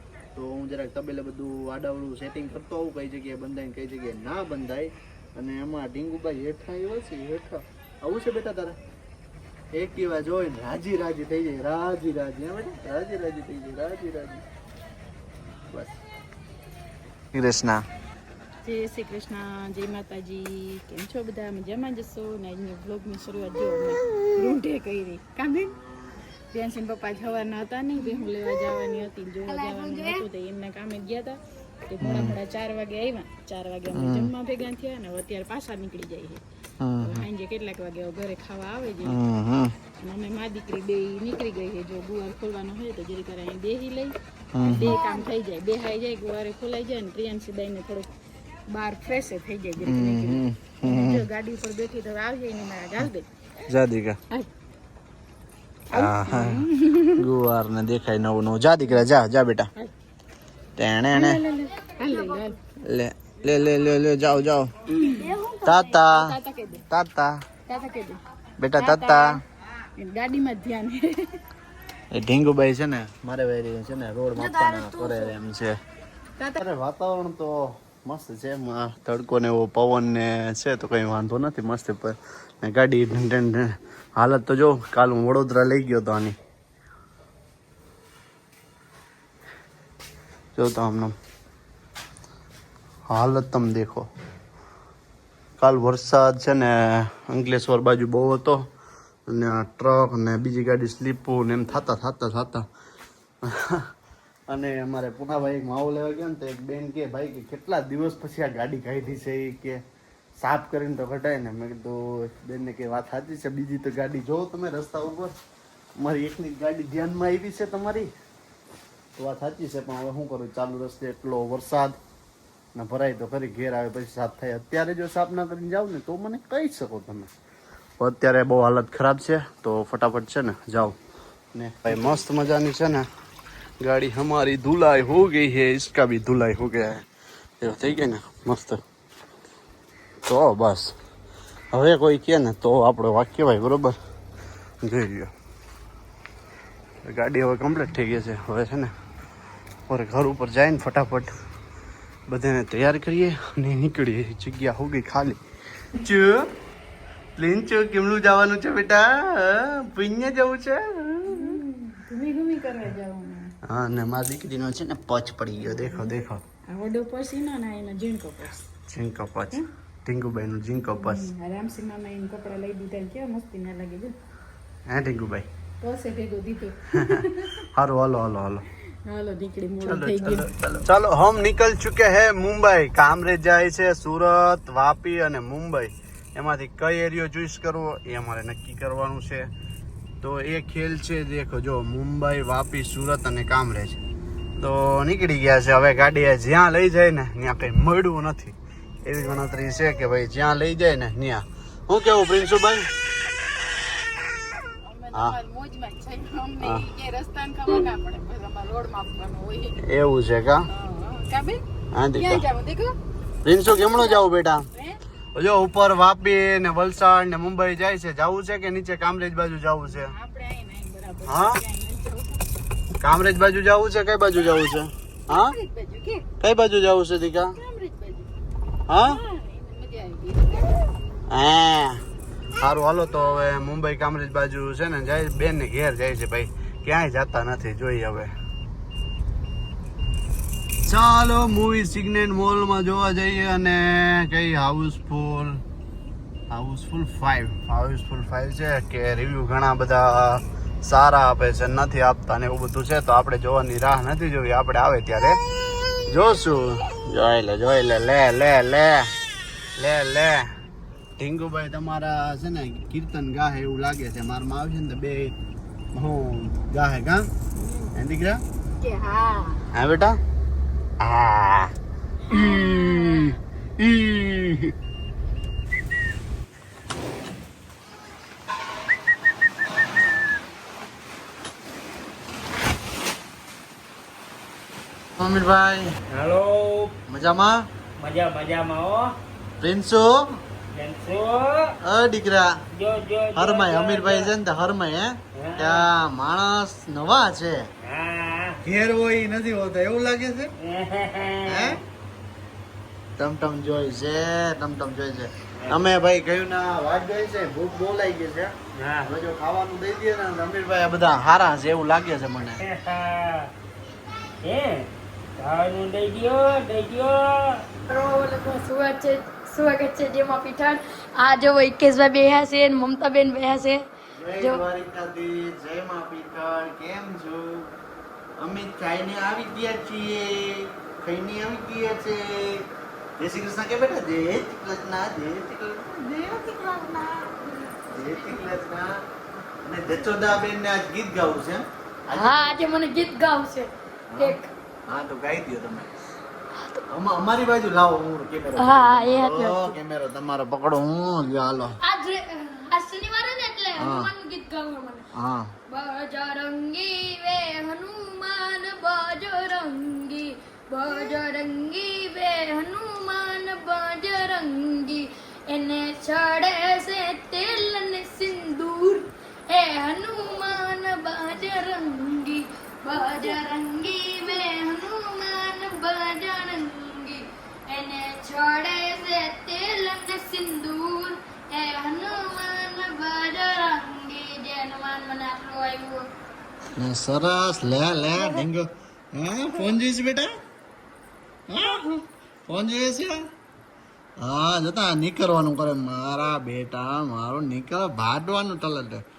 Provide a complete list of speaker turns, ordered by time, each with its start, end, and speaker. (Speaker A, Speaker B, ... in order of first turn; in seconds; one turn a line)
Speaker A: 0.3-8.8
Speaker A: 9.7-14.4
Speaker A: 15.7-16.0
Speaker A: 17.3-17.8
Speaker B: 18.6-25.7
Speaker B: 26.5-36.4
Speaker C: 28.0-30.3
Speaker A: 32.0-32.4
Speaker A: 33.9-34.3
Speaker A: 36.8-37.2
Speaker B: 37.0-39.2
Speaker A: 39.0-39.7
Speaker B: 40.0-48.1
Speaker A: 44.5-45.0
Speaker B: 48.7-53.3
Speaker A: 49.8-51.2
Speaker A: 53.7-54.2
Speaker B: 55.9-57.2
Speaker A: 55.9-59.7
Speaker A: 60.8-61.4
Speaker B: 61.1-62.6
Speaker A: 62.9-64.7
Speaker B: 64.9-65.4
Speaker C: 65.2-66.0
Speaker A: 65.6-66.3
Speaker B: 66.0-66.8
Speaker A: 66.9-67.4
Speaker B: 67.7-68.2
Speaker A: 68.6-69.4
Speaker B: 68.8-69.4
Speaker B: 70.0-71.4
Speaker A: 72.1-75.8
Speaker C: 74.4-75.3
Speaker A: 76.6-86.3
Speaker A: 90.6-91.1
Speaker A: 93.1-94.1
Speaker A: 95.6-98.6
Speaker A: 99.3-102.7
Speaker A: 103.5-103.9
Speaker A: 104.5-109.8
Speaker A: 110.4-115.3
Speaker A: 116.0-118.1
Speaker A: 119.2-122.0
Speaker A: 122.8-127.3
Speaker A: 128.0-131.0
Speaker A: 131.5-133.1
Speaker A: 133.8-137.0
Speaker A: 137.6-138.8
Speaker A: 140.3-140.9
Speaker A: 141.7-144.0
Speaker A: 144.8-145.3
Speaker A: 147.0-148.9
Speaker A: 149.9-151.3
Speaker A: 152.3-155.4
Speaker A: 155.9-156.5
Speaker A: 157.4-161.6
Speaker B: 161.3-163.5
Speaker A: 163.7-166.4
Speaker B: 166.7-168.6
Speaker A: 168.9-171.3
Speaker B: 170.8-174.1
Speaker A: 174.9-175.5
Speaker B: 175.8-177.6
Speaker A: 177.0-178.7
Speaker B: 179.1-180.7
Speaker A: 179.8-189.5
Speaker A: 190.2-194.0
Speaker A: 194.6-202.9
Speaker B: 204.8-209.8
Speaker A: 209.9-210.7
Speaker B: 210.7-211.6
Speaker A: 211.9-212.5
Speaker B: 212.2-213.0
Speaker A: 213.4-214.7
Speaker B: 213.7-215.0
Speaker A: 215.3-220.1
Speaker B: 219.9-222.4
Speaker A: 221.3-221.6
Speaker A: 223.0-225.6
Speaker B: 225.3-226.3
Speaker A: 226.4-227.6
Speaker B: 227.6-228.3
Speaker A: 228.9-229.2
Speaker B: 229.0-230.9
Speaker A: 231.3-232.0
Speaker A: 232.6-238.3
Speaker A: 240.9-245.6
Speaker A: 246.5-255.4
Speaker A: 256.1-259.1
Speaker A: 259.8-260.5
Speaker A: 261.2-265.3
Speaker A: 265.9-267.3
Speaker B: 267.6-267.9
Speaker A: 267.9-268.4
Speaker B: 268.8-269.6
Speaker A: 269.7-270.2
Speaker A: 271.0-271.7
Speaker B: 272.3-273.4
Speaker A: 272.3-274.7
Speaker A: 285.2-285.9
Speaker D: 286.1-286.9
Speaker A: 287.1-287.6
Speaker D: 288.0-289.1
Speaker A: 289.6-290.2
Speaker D: 290.7-291.7
Speaker A: 291.8-292.5
Speaker D: 292.7-294.3
Speaker A: 293.4-297.7
Speaker D: 295.4-295.9
Speaker D: 297.8-298.6
Speaker A: 298.6-300.5
Speaker D: 300.6-301.8
Speaker A: 301.4-301.8
Speaker A: 303.2-312.6
Speaker D: 305.6-305.8
Speaker D: 308.8-309.1
Speaker D: 312.6-313.5
Speaker D: 314.4-317.6
Speaker C: 317.9-323.9
Speaker A: 324.1-327.7
Speaker C: 324.4-324.6
Speaker A: 328.4-339.0
Speaker A: 339.7-342.6
Speaker C: 342.1-344.5
Speaker A: 344.1-345.9
Speaker A: 346.9-351.8
Speaker C: 348.6-349.8
Speaker C: 351.8-355.1
Speaker A: 353.8-354.1
Speaker A: 355.1-355.5
Speaker C: 355.7-386.0
Speaker A: 386.8-390.3
Speaker C: 388.2-388.5
Speaker A: 391.5-393.2
Speaker A: 394.2-399.0